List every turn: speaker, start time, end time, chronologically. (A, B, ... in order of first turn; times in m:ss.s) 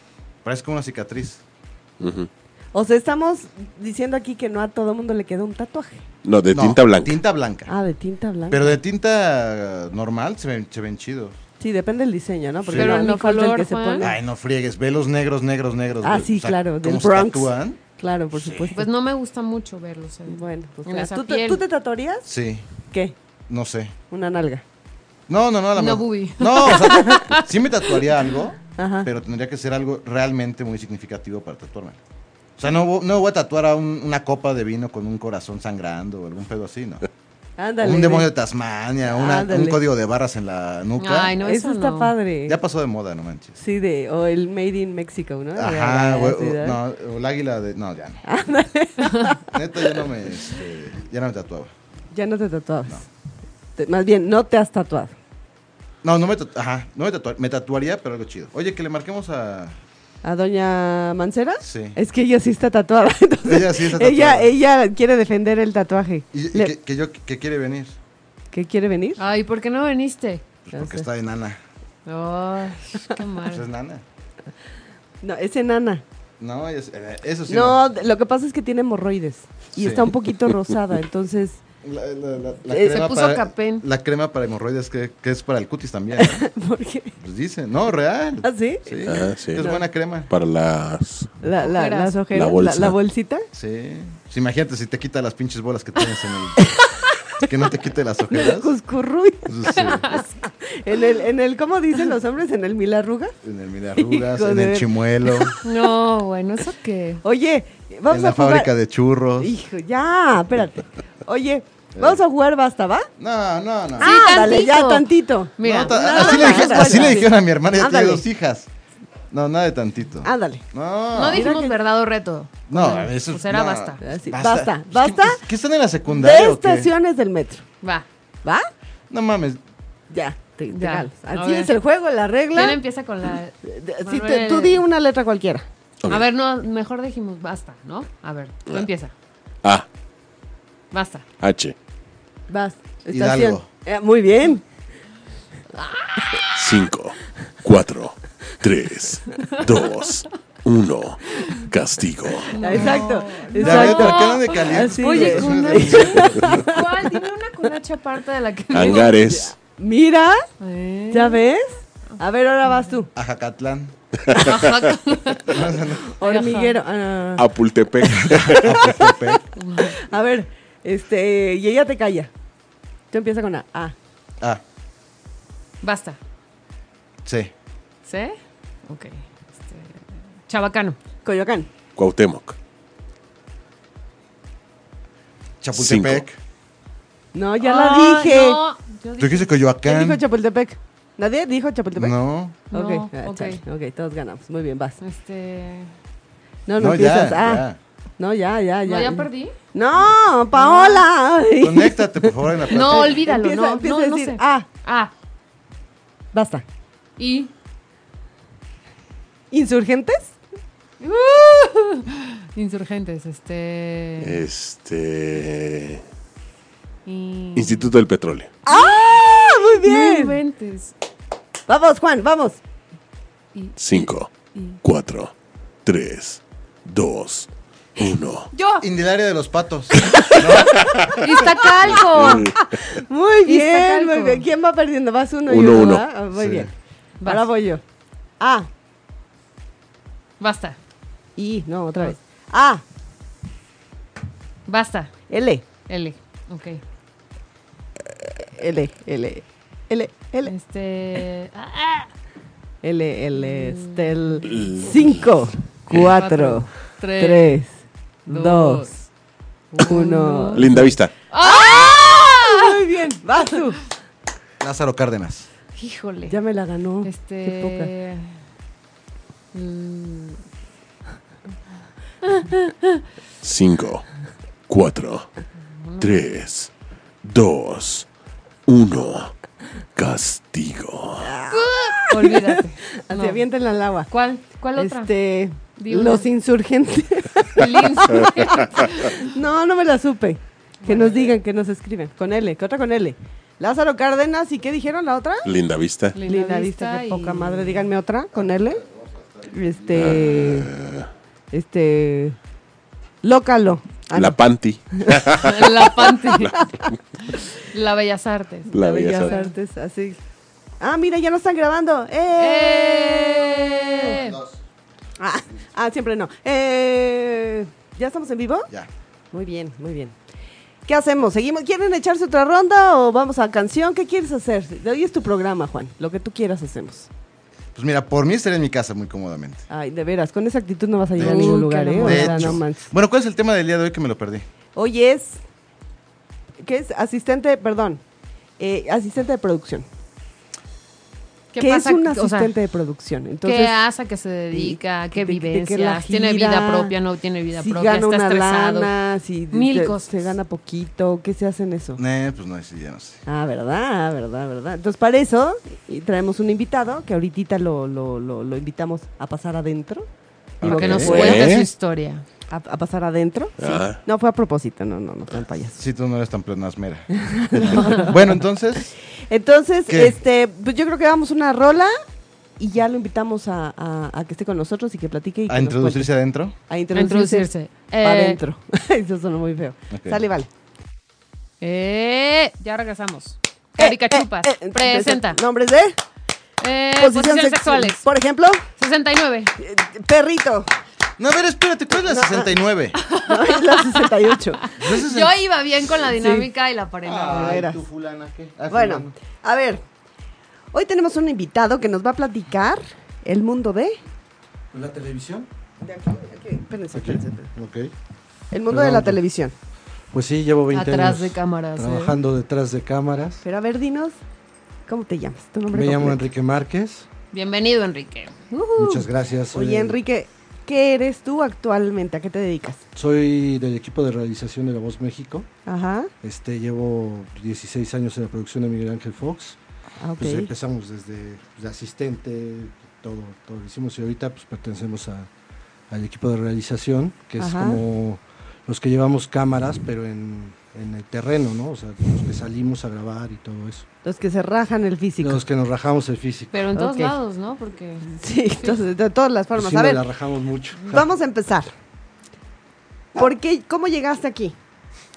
0:00.4-0:01.4 A
0:02.0-0:02.3 B
0:02.7-0:06.0 C
0:06.2-0:07.2 B
0:06.5-0:07.7 A
0:07.7-0:08.8 C
0:08.5-0:11.4 A
0:11.6-0:14.1 C
0:12.6-0:13.1 A
0:12.7-0:14.1 D
0:14.0-0:17.8 A
0:16.0-0:18.8 C
0:18.3-0:18.7 A
0:18.7-0:21.6 D
0:20.3-0:22.3 C
0:22.2-0:22.7 A
0:22.9-0:23.2 C
0:23.5-0:24.0 A
0:24.1-0:24.6 C
0:25.3-0:32.0 A
0:25.8-0:27.4 D
0:28.8-0:29.1 C
0:32.6-0:37.0 A
0:37.6-0:38.3 C
0:37.8-0:41.3 A
0:39.1-0:39.8 C
0:41.0-0:42.1 D
0:41.4-0:42.6 C
0:42.5-0:43.6 A
0:43.6-0:46.8 C
0:45.5-0:48.2 A
0:48.2-0:50.0 C
0:49.5-0:51.7 A
0:52.1-0:53.0 C
0:53.8-0:55.1 C
0:56.0-0:59.8 A
1:00.2-1:06.7 C
1:01.6-1:02.0 A
1:03.4-1:04.5 A
1:06.3-1:08.0 A
1:08.5-1:09.2 C
1:09.2-1:10.4 D
1:10.7-1:11.6 A
1:10.7-1:11.0 C
1:12.0-1:13.6 D
1:13.5-1:14.0 A
1:15.2-1:16.0 C
1:16.4-1:17.8 A
1:17.5-1:21.6 C
1:19.8-1:20.1 A
1:21.8-1:26.4 A
1:22.7-1:23.0 C
1:22.9-1:23.8 D
1:26.2-1:27.1 C
1:27.2-1:30.3 A
1:28.4-1:28.9 C
1:29.1-1:29.7 B
1:30.3-1:31.3 B
1:31.4-1:33.5 C
1:31.6-1:32.2 D
1:32.3-1:33.0 B
1:33.5-1:36.6 A
1:37.4-1:38.7 A
1:38.3-1:43.3 C
1:39.4-1:40.2 A
1:39.8-1:40.2 D
1:43.4-1:45.6 A
1:44.0-1:45.6 C
1:45.6-1:47.2 D
1:47.2-1:48.7 C
1:48.1-1:49.5 A
1:49.4-1:53.1 C
1:51.9-1:52.2 A
1:53.2-1:54.2 A
1:54.0-1:57.2 D
1:54.0-1:58.2 C
1:55.6-1:58.7 A
1:59.3-2:01.5 A
2:00.2-2:00.6 C
2:01.1-2:04.0 D
2:01.3-2:01.8 C
2:02.7-2:06.9 A
2:04.0-2:05.4 C
2:06.1-2:07.6 C
2:08.4-2:08.7 C
2:09.1-2:09.6 A
2:10.1-2:12.8 C
2:10.7-2:11.7 D
2:12.5-2:14.8 D
2:13.6-2:15.6 C
2:16.1-2:19.1 D
2:20.9-2:21.2 D
2:21.4-2:21.7 B
2:22.5-2:24.6 C
2:23.1-2:23.7 A
2:25.8-2:26.3 D
2:26.5-2:32.7 B
2:32.5-2:39.2 D
2:32.6-2:37.1 C
2:32.7-2:36.7 A
2:38.7-2:39.6 B
2:39.2-2:40.5 C
2:40.6-2:41.4 D
2:41.1-2:43.1 C
2:43.2-2:43.9 A
2:44.2-2:44.8 B
2:44.3-2:45.6 D
2:45.5-2:46.1 A
2:46.1-2:47.4 C
2:46.2-2:46.8 D
2:47.3-2:48.9 B
2:48.3-2:49.4 A
2:48.9-2:52.3 C
2:49.5-2:50.0 D
2:53.1-2:53.9 C
2:55.8-2:56.2 D
2:57.2-2:57.5 A
2:58.0-3:01.0 D
3:01.2-3:01.7 C
3:02.0-3:02.6 B
3:05.6-3:06.4 A
3:05.7-3:06.2 B
3:07.3-3:08.6 C
3:07.6-3:09.6 D
3:09.2-3:10.2 A
3:09.8-3:12.2 C
3:11.9-3:12.6 A
3:12.7-3:15.0 C
3:12.7-3:13.6 D
3:15.0-3:15.9 D
3:16.7-3:17.6 C
3:16.8-3:17.8 A
3:18.2-3:24.7 C
3:18.9-3:19.5 D
3:20.5-3:21.0 D
3:21.6-3:23.2 A
3:22.7-3:25.1 D
3:26.3-3:26.6 C
3:27.2-3:27.5 D
3:29.5-3:30.4 C
3:31.0-3:34.4 D
3:34.2-3:36.0 B
3:37.0-3:37.9 D
3:37.5-3:38.5 B
3:38.6-3:40.4 C
3:38.7-3:40.9 D
3:41.7-3:42.6 C
3:43.5-3:44.8 D
3:43.8-3:45.3 B
3:45.8-3:48.5 B
3:48.5-3:48.8 D
3:48.8-3:51.2 A
3:50.2-3:51.1 B
3:51.2-3:52.5 D
3:51.8-3:52.6 B
3:52.6-3:56.7 C
3:53.4-3:54.4 D
3:55.5-3:56.1 B
3:56.4-3:56.6 A
3:57.2-3:57.5 D
3:57.2-3:57.8 C
3:58.4-3:58.7 C
4:00.4-4:00.8 D
4:01.4-4:02.8 C
4:04.7-4:05.2 D
4:05.3-4:05.6 C
4:05.9-4:06.8 D
4:08.4-4:10.5 C
4:10.4-4:12.1 D
4:12.8-4:18.9 C
4:13.3-4:14.4 D
4:14.5-4:15.1 B
4:15.9-4:17.6 D
4:18.3-4:19.1 D
4:19.7-4:22.7 D
4:19.8-4:23.9 C
4:20.5-4:21.1 B
4:24.6-4:25.5 A
4:25.8-4:26.4 D
4:26.3-4:27.9 C
4:27.0-4:28.4 D
4:29.5-4:30.4 D
4:32.2-4:33.0 D
4:33.4-4:34.0 B
4:34.7-4:35.3 B
4:35.8-4:36.1 D
4:36.0-4:36.7 B
4:37.2-4:38.1 B
4:38.7-4:39.3 B
4:40.0-4:41.3 B
4:41.2-4:42.4 C
4:41.5-4:43.4 D
4:43.1-4:44.1 C
4:44.1-4:45.1 D
4:44.8-4:48.2 C
4:45.8-4:46.3 D
4:47.6-4:49.2 D
4:49.1-4:55.5 C
4:50.8-4:51.2 D
4:55.4-4:56.2 B
4:56.1-4:57.9 D
4:56.2-4:58.8 C
4:58.9-4:59.2 A
4:59.4-5:00.7 C
4:59.9-5:01.1 B
5:01.5-5:02.4 C
5:03.2-5:04.4 C
5:04.1-5:06.6 B
5:05.4-5:06.5 D
5:07.3-5:09.5 D
5:08.7-5:09.3 B
5:08.7-5:10.2 C
5:10.8-5:14.2 C
5:12.4-5:14.4 D
5:14.2-5:14.5 A
5:15.2-5:18.7 C
5:19.3-5:20.2 C
5:20.9-5:27.1 C
5:27.8-5:29.6 A
5:29.7-5:32.9 C
5:31.2-5:32.6 D
5:31.2-5:34.4 A
5:34.8-5:35.4 C
5:36.6-5:38.0 C
5:38.6-5:39.9 C
5:41.5-5:42.5 D
5:41.6-5:43.8 C
5:43.4-5:48.9 D
5:44.5-5:46.9 C
5:47.5-5:52.0 C
5:49.5-5:50.3 D
5:52.0-5:53.2 A
5:53.2-6:00.1 C
6:00.6-6:01.4 A
6:00.6-6:01.4 C
6:00.6-6:02.2 D
6:00.8-6:01.7 B
6:02.5-6:05.8 C
6:03.6-6:04.0 B
6:05.8-6:08.9 A
6:07.2-6:08.4 C
6:09.3-6:11.9 C
6:09.9-6:10.2 A
6:12.6-6:16.1 C
6:15.5-6:16.6 A
6:16.6-6:17.5 C
6:16.9-6:18.4 D
6:18.0-6:20.5 C
6:19.9-6:20.2 A
6:21.6-6:25.4 D
6:23.8-6:26.0 C
6:26.6-6:28.0 D
6:27.0-6:28.6 C
6:28.8-6:29.5 D
6:29.6-6:30.7 C
6:31.2-6:33.0 A
6:32.1-6:32.5 C
6:33.0-6:37.6 D
6:33.0-6:34.6 C
6:34.8-6:35.3 A
6:36.1-6:36.5 C
6:37.0-6:39.1 A
6:37.3-6:37.8 C
6:38.7-6:39.8 C
6:40.7-6:44.0 C
6:44.7-6:45.5 E
6:45.8-6:47.5 C
6:46.9-6:47.9 E
6:48.5-6:49.5 C
6:48.7-6:49.2 E
6:50.1-6:53.4 E
6:50.7-6:52.1 D
6:53.4-6:54.2 C
6:54.9-6:56.2 C
6:55.7-6:57.1 E
6:57.3-6:59.1 D
6:58.8-7:00.0 E
6:59.5-7:02.8 C
7:03.0-7:05.5 E
7:05.6-7:06.1 C
7:06.2-7:09.6 E
7:10.0-7:10.5 C
7:10.2-7:15.3 E
7:15.9-7:23.8 E
7:17.4-7:17.8 C
7:24.0-7:25.4 C
7:25.2-7:26.6 E
7:26.5-7:28.8 D
7:26.8-7:27.1 C
7:28.1-7:30.0 C
7:29.5-7:31.1 E
7:30.8-7:31.7 C
7:33.1-7:34.6 C